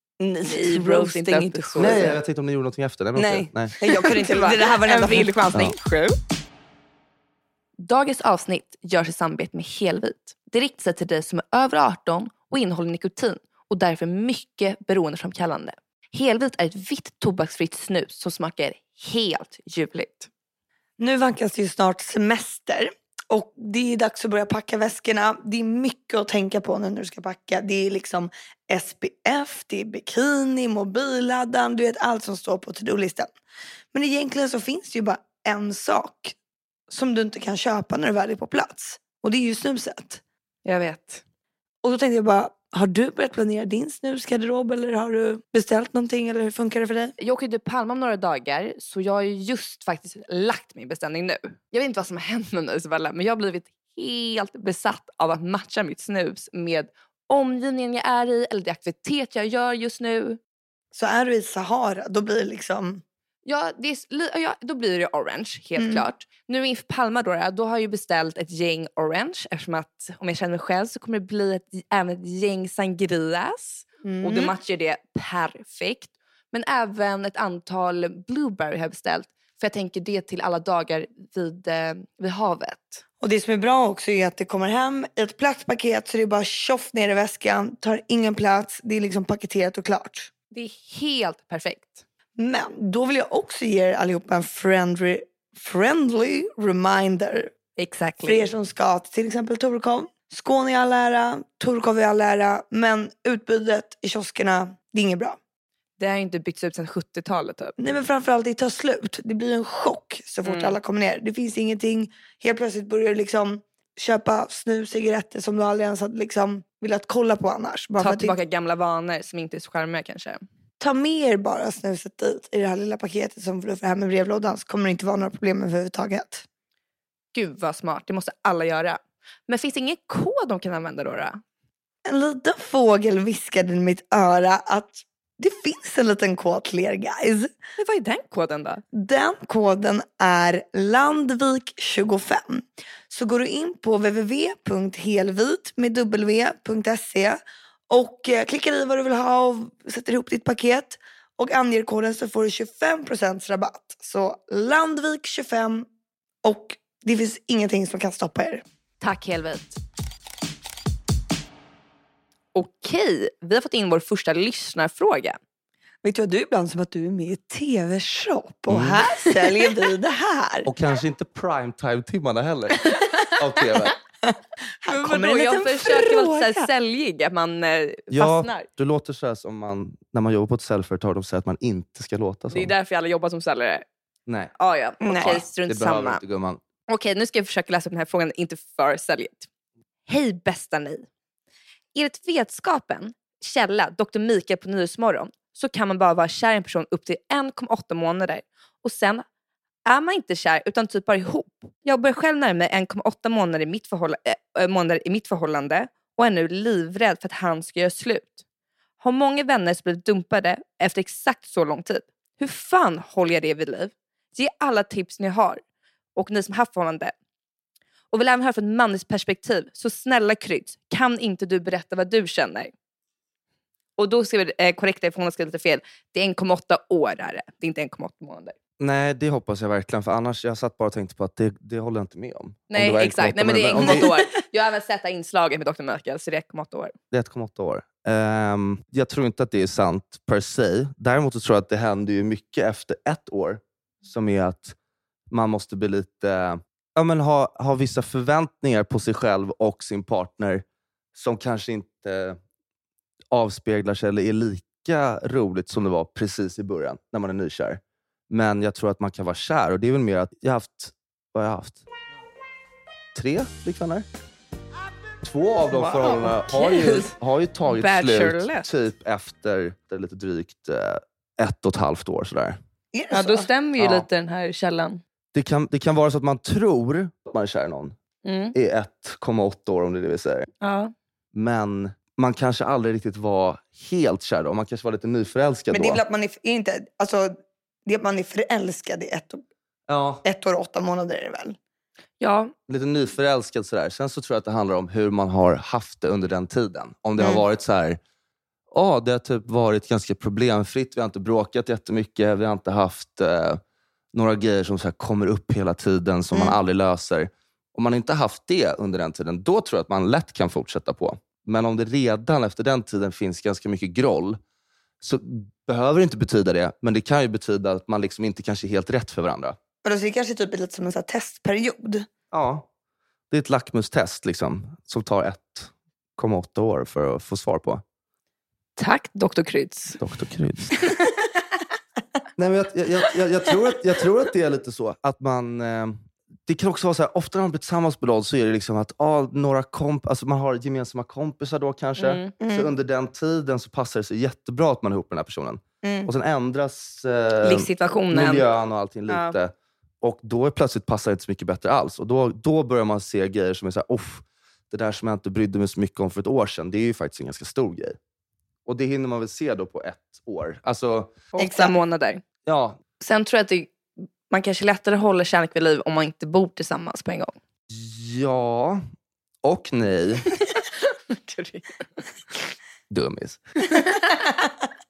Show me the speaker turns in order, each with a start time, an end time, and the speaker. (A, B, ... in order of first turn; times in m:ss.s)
0:00.2-0:02.2 A
0:00.5-0:02.2 B
0:01.8-0:03.7 C
0:03.2-0:05.3 A
0:03.8-0:06.2 B
0:07.8-0:20.3 B
0:21.0-0:33.3 A
0:33.9-0:36.4 A
0:36.9-0:40.2 A
0:40.6-0:41.2 B
0:41.8-0:47.1 A
0:47.2-1:00.4 B
1:00.9-1:03.0 A
1:03.4-1:23.0 B
1:05.8-1:06.1 A
1:14.0-1:14.5 A
1:23.2-1:30.3 A
1:30.5-1:32.0 B
1:32.4-1:37.5 A
1:37.8-1:38.4 B
1:38.2-1:45.4 A
1:46.0-1:47.9 B
1:47.8-1:58.4 A
1:50.4-1:50.8 B
1:58.0-2:00.4 B
2:00.8-2:06.4 A
2:07.3-2:11.4 B
2:12.1-2:17.5 A
2:17.8-2:18.8 B
2:18.9-2:35.9 A
2:36.4-2:38.6 A
2:39.0-2:39.8 B
2:42.5-2:45.4 B
2:46.0-2:50.7 A
2:48.7-2:49.0 C
2:50.6-2:54.0 C
2:54.2-2:56.7 A
2:54.9-2:58.7 B
2:58.1-3:02.7 C
3:02.5-3:03.8 B
3:04.3-3:04.5 C
3:04.6-3:06.2 B
3:05.0-3:05.4 A
3:05.2-3:06.6 C
3:06.9-3:09.5 B
3:10.1-3:11.1 B
3:12.0-3:19.2 B
3:19.8-3:28.4 B
3:29.0-3:35.6 B
3:36.2-3:37.1 B
3:38.1-3:42.7 B
3:44.0-3:48.6 B
3:48.8-3:54.2 C
3:52.7-3:57.0 B
3:57.1-4:04.8 C
4:05.3-4:10.6 C
4:11.2-4:12.4 C
4:13.3-4:21.8 C
4:23.1-4:24.1 C
4:25.2-4:32.6 C
4:25.9-4:27.1 B
4:27.7-4:28.7 B
4:32.9-4:33.5 A
4:33.1-4:35.0 B
4:33.8-4:34.1 C
4:35.3-4:38.0 C
4:38.2-4:38.6 B
4:38.5-4:40.5 C
4:40.6-4:40.9 B
4:41.3-4:46.0 C
4:45.7-4:49.4 A
4:49.9-4:50.2 C
4:50.2-4:51.6 A
4:52.2-4:52.5 B
4:52.7-4:58.0 C
4:57.2-4:57.4 A
4:58.7-5:03.6 C
5:04.1-5:14.4 C
5:06.3-5:06.6 A
5:15.0-5:19.6 C
5:19.8-5:22.1 A
5:22.3-5:22.7 C
5:23.3-5:27.8 C
5:28.8-5:30.0 B
5:30.0-5:30.8 C
5:32.4-5:58.0 C
5:42.0-5:42.3 B
5:42.4-5:42.7 A
5:45.8-5:46.1 A
5:47.4-5:48.5 B
5:49.1-5:49.4 B
5:58.7-6:01.2 C
6:01.3-6:02.2 B
6:01.4-6:01.8 A
6:02.4-6:02.8 C
6:03.0-6:03.8 B
6:04.3-6:07.3 B
6:07.7-6:08.8 C
6:09.4-6:10.3 C
6:10.4-6:11.9 B
6:12.9-6:13.5 C
6:13.7-6:14.2 B